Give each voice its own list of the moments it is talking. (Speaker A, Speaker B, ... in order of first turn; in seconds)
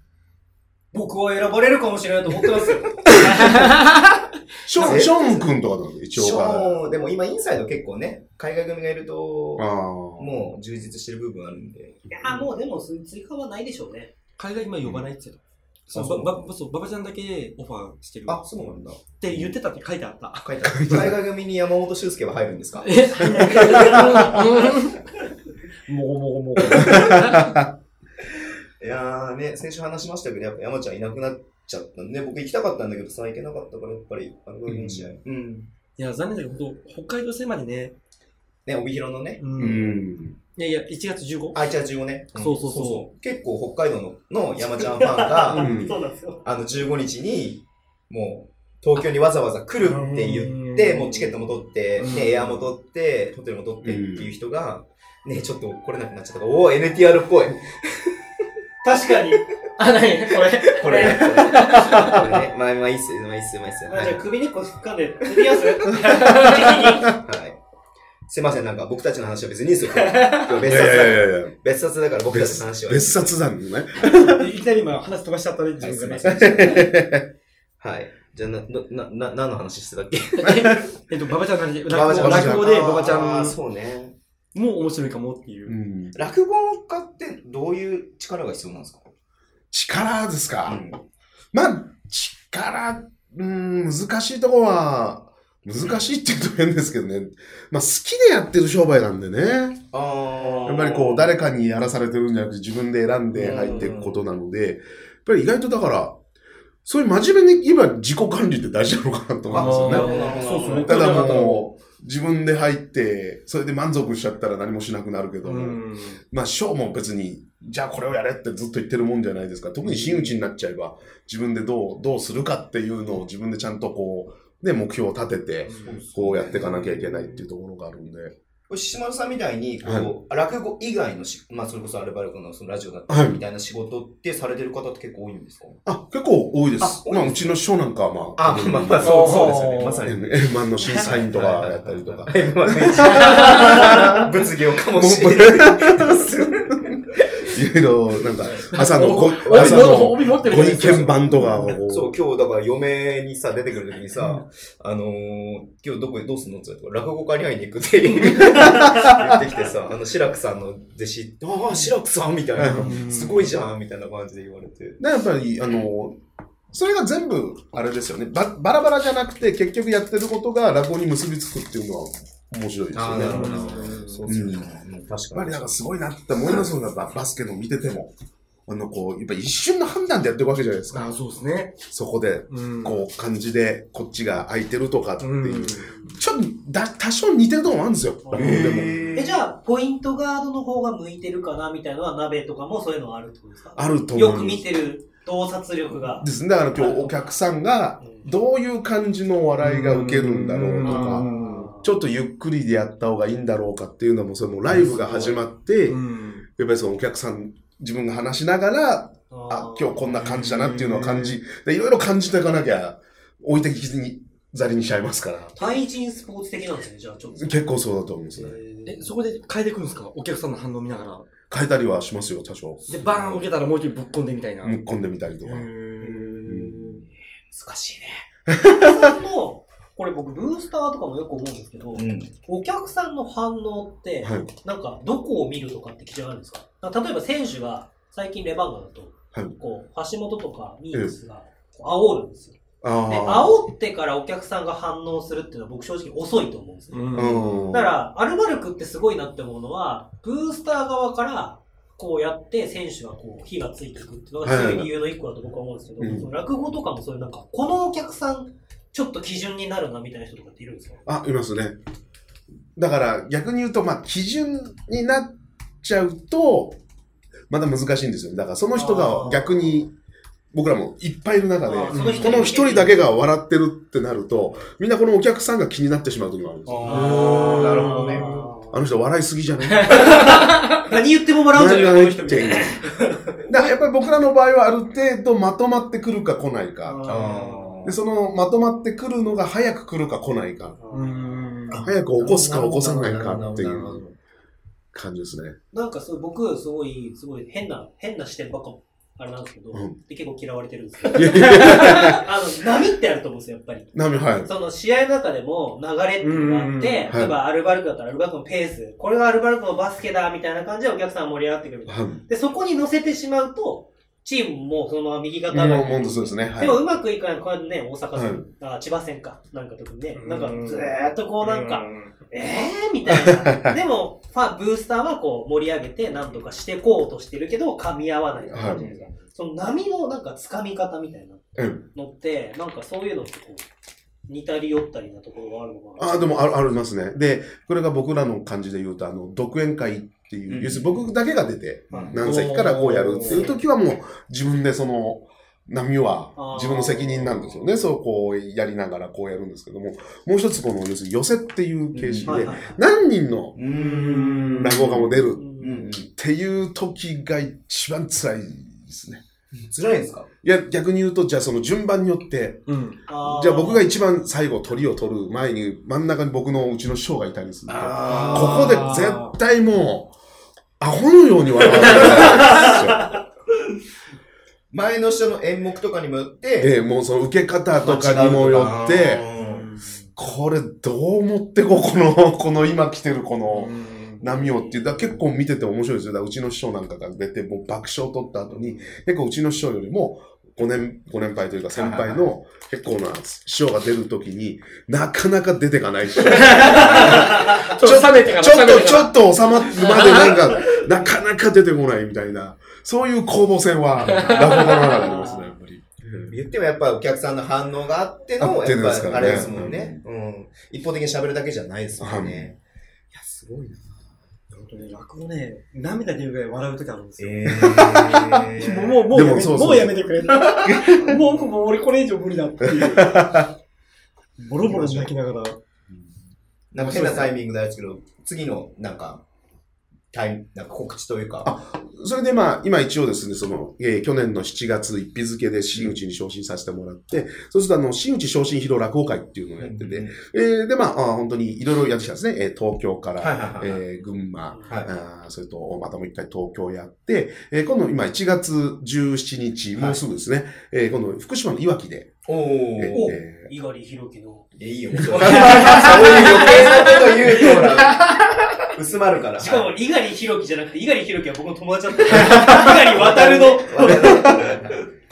Speaker A: 0.9-3.8, 12.1-14.1, 45.0-46.4, 58.8-59.5, 60.9-61.4, 63.9-67.2, 188.2-197.3, 200.8-201.9, 209.3-210.1, 215.6-217.7, 218.3-219.0, 228.6-242.6, 243.1-261.0, 268.7-269.7, 271.6-273.0, 276.9-278.8, 279.9-283.6, 286.8-287.7, 290.8-291.5, 295.7-333.6, 334.3-336.4, 343.3-343.6, 346.4-347.6, 352.2-352.8, 355.3-355.8, 363.1-363.9, 371.9-372.8, 404.6-405.5, 452.9-454.5, 459.4-464.6
Speaker B: 4.7-6.8, 9.6-10.4, 14.8-15.1, 19.3-19.5, 20.6-21.2, 23.4-24.4, 26.6-27.7, 34.7-35.1, 39.6-40.4, 45.5-46.0, 53.8-54.3, 70.5-71.5, 72.3-74.5, 76.3-77.3, 80.5-80.8, 82.1-82.8, 85.7-86.2, 89.7-90.8, 91.5-99.8, 100.6-106.2, 106.8-110.1, 110.8-128.3, 129.8-130.1, 133.1-133.4, 135.8-144.3, 144.9-152.2, 158.4-159.3, 162.6-163.0, 165.0-166.2, 166.7-174.7, 175.3-178.1, 178.7-181.1, 181.9-189.2, 193.8-194.7, 195.9-206.0, 206.6-215.8, 217.3-218.6, 221.5-223.0, 224.6-225.7, 226.2-227.0, 228.5-229.1, 234.2-234.5, 242.8-243.6, 247.1-248.0, 254.4-254.9, 256.0-256.3, 261.1-261.8, 262.8-266.8, 267.5-269.9, 270.5-277.2, 278.7-280.4, 281.5-282.8, 283.5-287.1, 287.8-290.8, 291.7-294.0, 294.9-295.6, 299.7-300.0, 301.1-302.2, 303.9-304.5, 307.1-307.4, 311.9-312.2, 315.5-316.8, 318.1-318.5, 323.1-323.8, 328.5-328.9, 331.6-331.9, 336.0-353.6, 354.6-359.2, 360.4-370.1, 370.8-373.1, 376.6-379.2, 380.1-406.3, 408.4-410.0, 412.0-412.5, 417.5-418.4, 419.1-421.2, 422.6-423.5, 431.4-452.2, 452.8-453.5, 455.1-455.9, 464.0-464.4
Speaker C: 4.8-5.5, 6.1-12.0, 15.9-16.5, 18.3-19.0, 20.4-24.0, 28.8-35.7, 38.6-39.8, 41.5-45.8, 46.4-58.1, 60.6-64.2, 67.1-67.6, 68.3-73.3, 75.8-76.9, 77.8-80.8, 81.9-84.1, 86.1-89.1, 90.7-91.0, 99.9-101.3, 103.3-104.2, 109.5-111.4, 125.8-126.8, 128.7-135.8, 136.8-137.5, 138.4-147.5, 148.4-148.7, 149.4-151.1, 151.9-165.0, 172.9-175.8, 188.3-189.4, 227.5-228.2, 231.9-232.3, 276.6-278.4, 287.0-288.0, 291.7-294.1, 340.5-341.0, 341.9-342.2, 351.9-352.5, 353.5-355.9, 359.7-360.3, 367.7-368.9, 374.7-376.7, 377.8-379.6, 388.5-388.9, 391.8-392.2, 406.2-412.6, 413.1-414.1, 417.2-419.0, 424.6-425.1, 426.7-429.2, 430.1-431.5, 439.6-440.1, 443.2-443.8, 444.7-444.9, 449.8-450.0, 452.2-453.1, 454.6-459.7, 462.1-464.8
Speaker D: 14.4-18.4, 19.2-20.5, 22.8-25.0, 25.9-27.5, 36.0-37.9, 39.4-40.0, 40.5-41.6, 42.3-43.0, 49.8-51.4, 52.0-52.7, 59.8-62.2, 66.0-66.9, 69.9-70.6, 74.0-76.8, 80.4-83.6, 84.5-85.8, 109.5-111.7, 115.4-116.2, 125.7-127.2, 139.0-140.0, 143.3-143.7, 148.7-151.8, 162.7-163.5, 173.1-174.2, 180.9-181.8, 182.5-183.1, 185.2-185.9, 199.6-201.7, 204.9-205.3, 205.9-206.4, 210.2-211.4, 218.8-221.3, 222.9-224.8, 225.4-227.0, 246.9-247.5, 271.9-272.4, 276.9-278.5, 279.8-280.6, 290.9-291.8, 306.2-307.1, 320.1-322.1, 342.2-343.5, 353.7-355.0, 362.7-363.0, 368.0-369.3, 379.5-380.1, 383.5-384.3, 396.3-399.2, 399.7-400.4, 404.1-404.9, 414.5-417.8, 418.5-423.4, 424.4-425.6, 426.8-427.3, 455.2-458.1